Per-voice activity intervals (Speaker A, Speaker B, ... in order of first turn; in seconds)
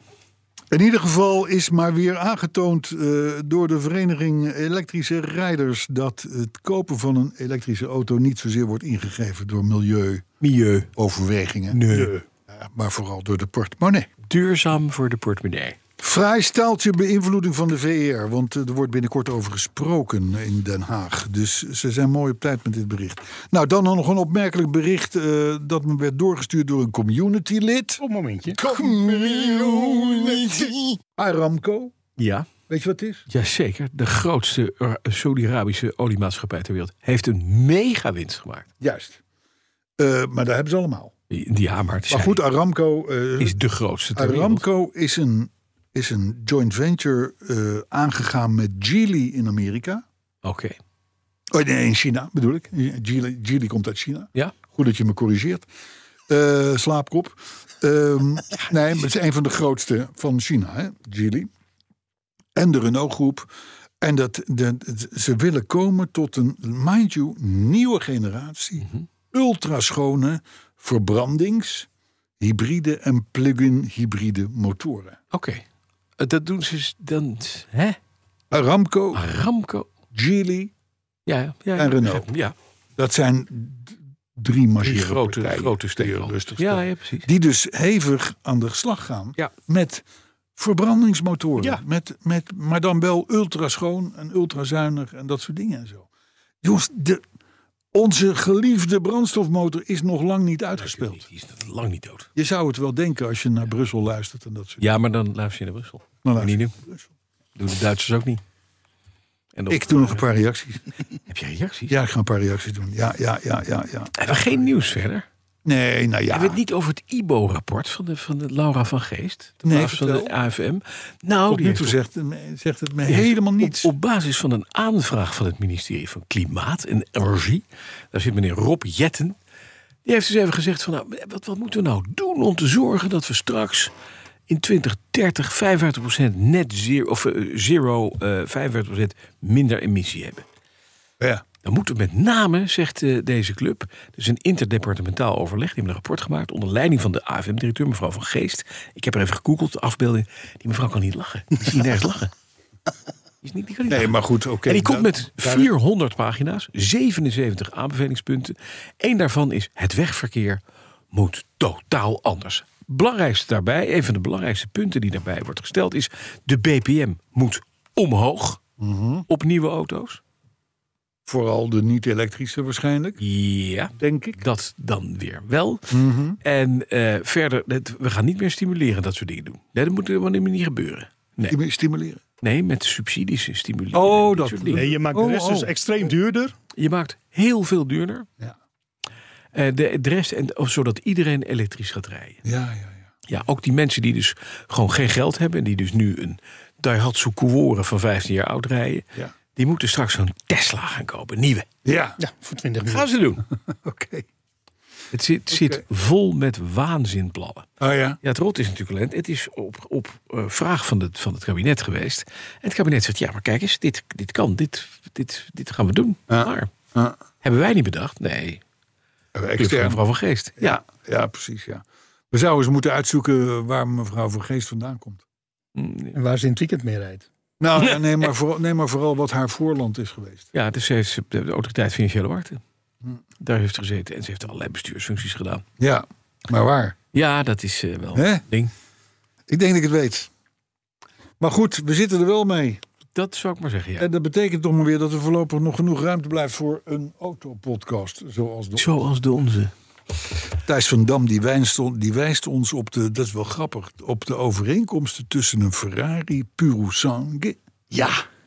Speaker A: 0.7-10.2, 11.0-14.1, 16.0-28.0, 28.6-31.9, 32.7-33.3, 38.8-39.2, 40.0-41.1, 42.1-43.6, 44.1-50.0, 51.5-55.7, 56.3-61.5, 62.5-63.5, 64.0-71.9, 72.4-75.2, 78.5-79.2, 80.1-80.7, 81.8-82.3, 83.0-90.0, 90.6-96.1, 96.6-97.2, 97.9-101.2, 102.4-104.9, 106.2-107.1, 109.7-110.9, 111.9-114.7, 115.7-116.6, 119.6-120.3, 121.5-123.9, 153.9-155.7, 168.8-169.3, 171.3-173.2, 173.9-174.4, 175.9-176.4, 181.5-182.2, 183.9-185.7, 192.4-193.1, 201.8-202.2, 203.5-204.3, 205.5-205.8, 207.8-208.2, 216.3-217.2, 219.3-220.0, 220.6-225.2, 227.6-230.5, 235.8-237.0, 238.2-238.4, 239.5-240.3, 241.4-242.8, 244.0-249.0, 250.7-258.1
Speaker B: 10.4-10.9, 11.7-12.2, 14.3-15.8, 32.2-32.5, 33.3-38.7, 41.3-42.4, 43.4-44.6, 50.4-50.8, 75.3-75.6, 76.2-78.0, 79.1-79.9, 81.3-82.5, 84.8-87.3, 100.8-102.3, 104.8-106.7, 107.6-108.4, 109.5-110.3, 111.3-112.0, 114.2-115.3, 116.3-122.0, 123.1-129.4, 130.1-133.9, 134.5-140.4, 141.6-152.3, 153.4-160.6, 161.1-168.6, 169.3-170.2, 173.2-181.6, 182.4-184.9, 186.8-188.3, 189.5-192.4, 193.3-201.7, 202.9-203.4, 205.1-207.7, 208.2-216.7, 217.4-218.6, 219.6-220.7, 225.8-226.2, 230.5-232.6, 233.4-235.6, 237.1-238.7, 243.1-244.1, 248.8-249.7
Speaker C: 28.0-28.6, 184.7-186.5, 202.2-203.1, 226.1-227.3, 257.9-258.2